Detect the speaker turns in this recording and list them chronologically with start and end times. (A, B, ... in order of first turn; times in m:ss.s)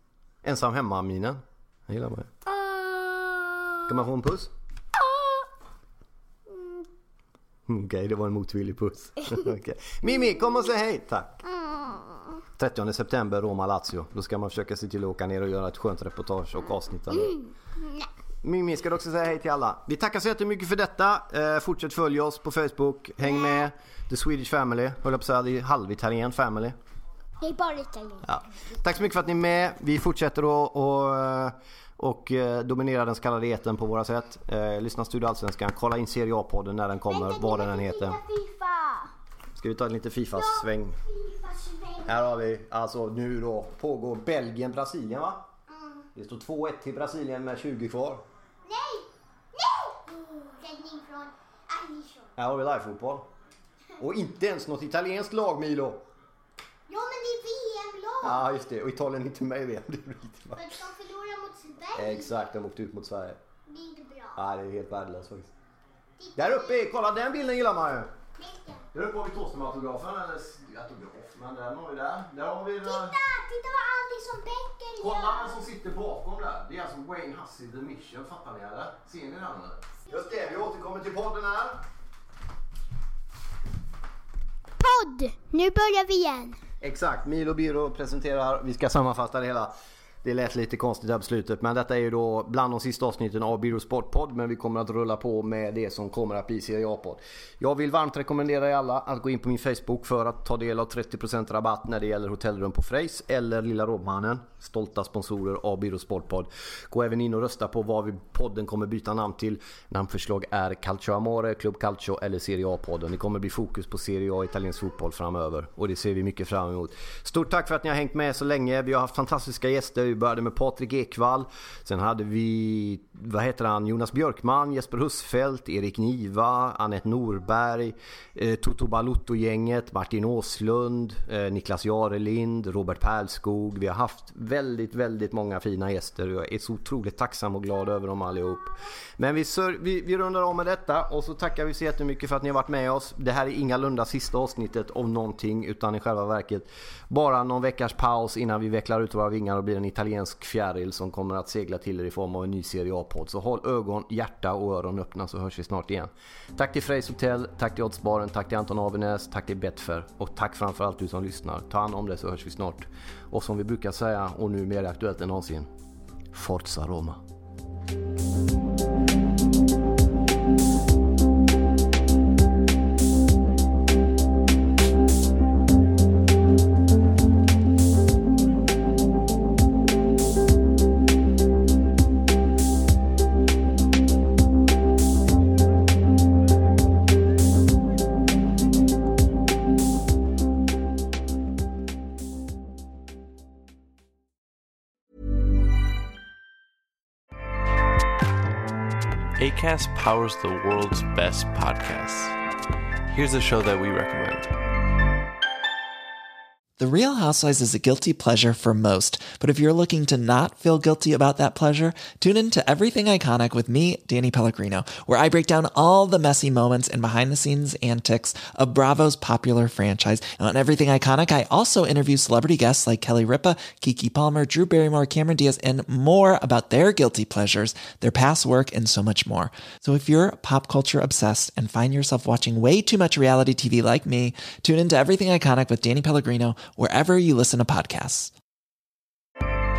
0:00.4-0:02.3 A
0:02.4-0:03.9 B
0:03.9-0:04.5 A
0:05.0-0:05.4 B
0:06.5-0:06.8 B
0:07.7-0:11.4 A
0:11.5-0:12.2 B
0:12.6-0:17.4 A
0:17.2-0:18.1 B
0:18.4-0:26.8 A
0:27.4-0:28.3 B
0:28.2-0:38.2 A
0:37.1-0:39.1 B
0:39.6-0:41.0 A
0:40.3-0:42.4 B
0:42.1-0:45.4 A
0:45.7-0:46.1 B
0:46.1-0:48.2 A
0:48.6-0:52.3 B
0:52.4-0:53.2 A
0:54.0-0:56.0 A
0:56.9-0:58.5 B
0:58.2-1:00.7 A
1:00.5-1:02.3 B
1:01.9-1:03.4 A
1:03.6-1:04.4 B
1:04.4-1:05.5 A
1:06.2-1:06.8 B
1:06.4-1:08.1 A
1:08.4-1:08.8 B
1:08.9-1:13.2 A
1:12.8-1:15.6 B
1:15.0-1:21.8 A
1:24.8-1:26.6 B
1:26.8-1:29.7 A
1:30.2-2:45.7 A
2:46.3-2:47.2 A
3:19.4-3:22.4 C
3:23.1-3:24.5 C
3:26.8-3:58.3 D